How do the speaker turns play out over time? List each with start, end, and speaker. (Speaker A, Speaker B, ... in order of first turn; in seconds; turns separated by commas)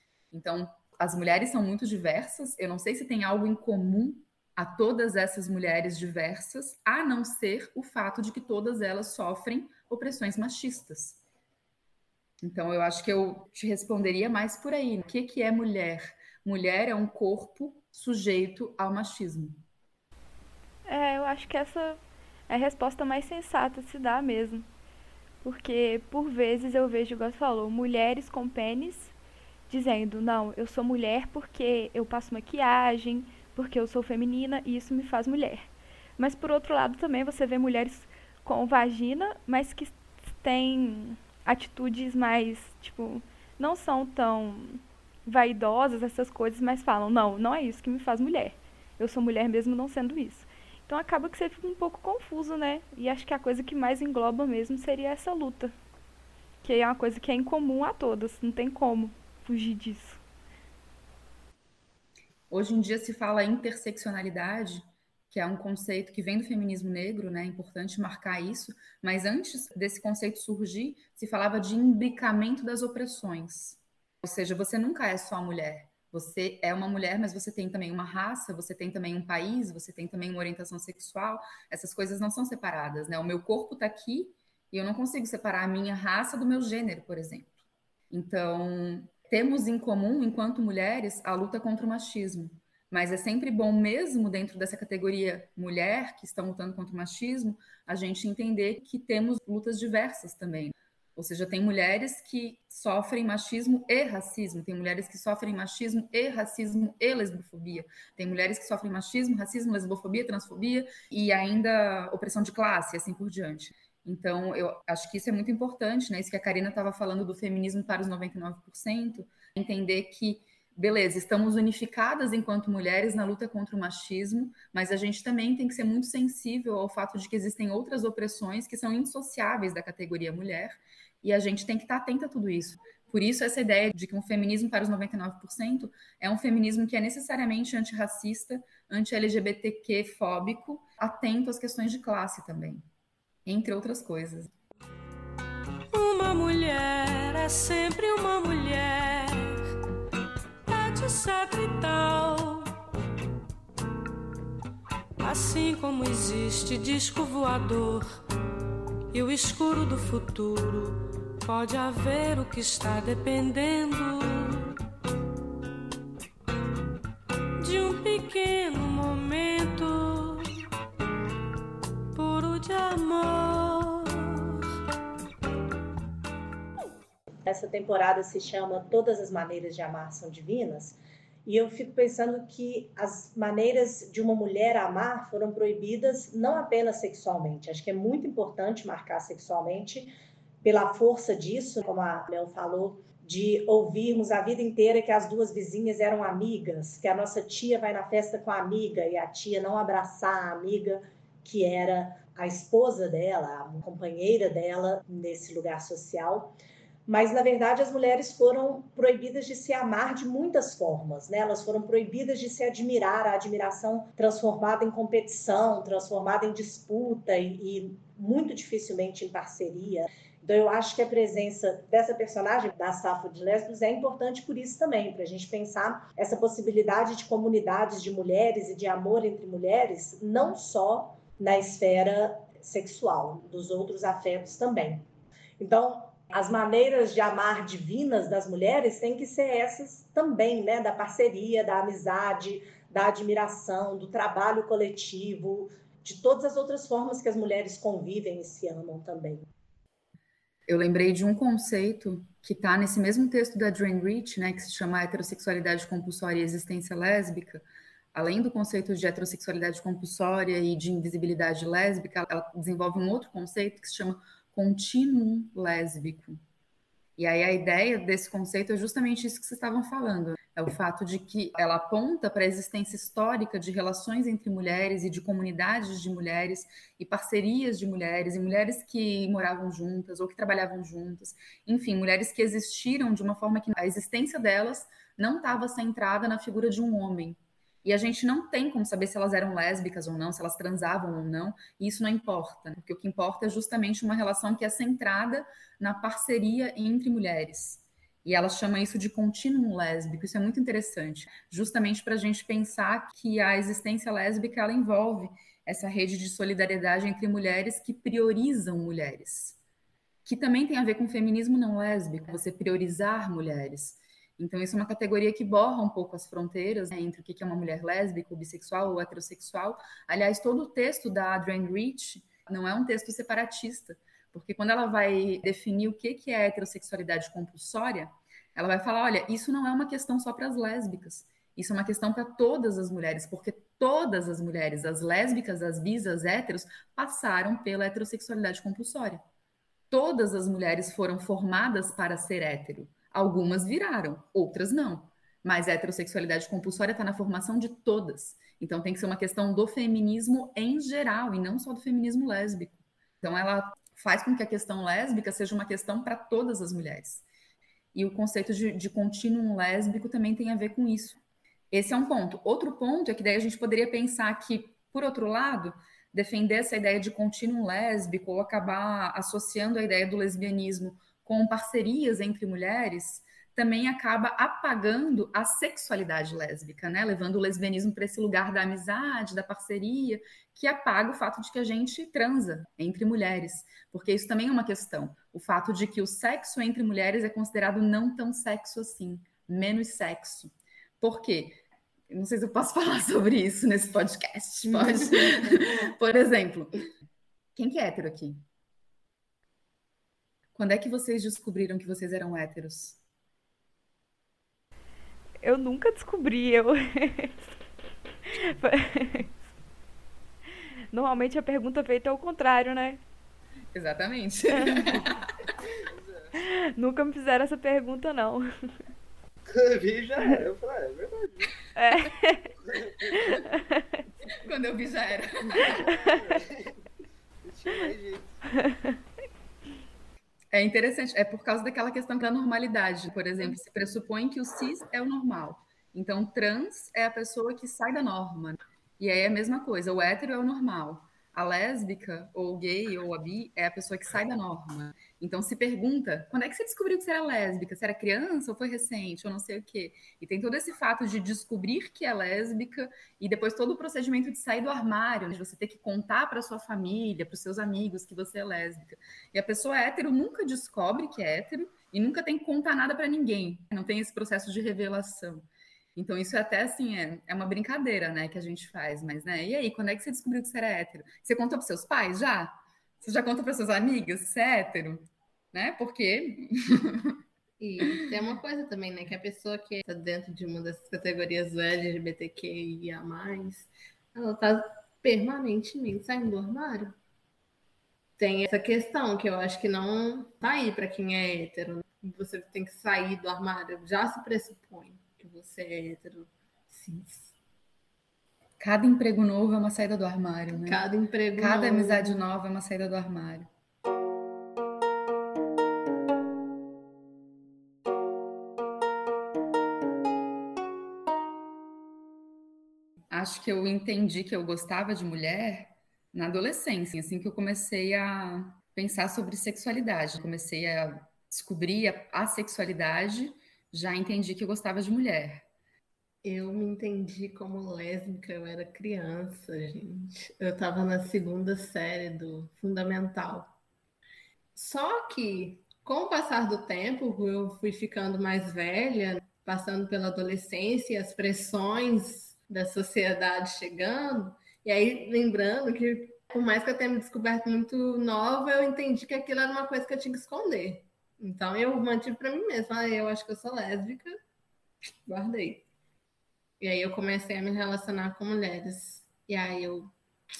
Speaker A: 0.3-11.2, Speaker A: 12.4-19.6, Speaker B: 20.9-24.7, Speaker B: 25.4-29.1, Speaker B: 29.7-55.7, Speaker B: 56.6-60.2, Speaker A: 62.5-87.5, Speaker A: 88.1-142.8, Speaker A: 143.4-144.5, Speaker C: 145.9-149.6, Speaker C: 150.7-152.7, Speaker C: 155.2-158.2, Speaker C: 159.1-164.8, Speaker C: 167.6-170.6, Speaker C: 172.1-174.6, Speaker D: 177.4-206.6, Speaker D: 207.1-235.1, Speaker D: 235.6-249.5, Speaker A: 250.7-266.4, Speaker A: 267.2-309.6, Speaker A: 310.2-339.2, Speaker A: 339.9-357.2, Speaker A: 357.9-361.2, Speaker A: 361.7-396.9, Speaker A: 397.6-398.4, Speaker A: 400.5-403.0, Speaker B: 405.4-407.5, Speaker B: 408.2-409.3, Speaker B: 410.9-413.0, Speaker A: 413.7-415.3, Speaker E: 415.9-416.3, Speaker B: 416.4-418.8, Speaker E: 419.4-421.5, Speaker B: 421.8-422.5, Speaker E: 422.6-423.5, Speaker B: 423.3-423.6, Speaker A: 424.4-425.9, Speaker E: 425.5-426.8, Speaker E: 427.4-428.4, Speaker A: 430.5-477.2, Speaker F: 477.6-486.9, Speaker F: 488.2-497.3, Speaker A: 498.6-500.8, Speaker F: 500.5-502.2, Speaker A: 501.3-503.5, Speaker A: 513.1-525.4, Speaker F: 526.2-533.5, Speaker F: 534.5-554.1, Speaker F: 555.1-555.6, Speaker F: 556.6-559.9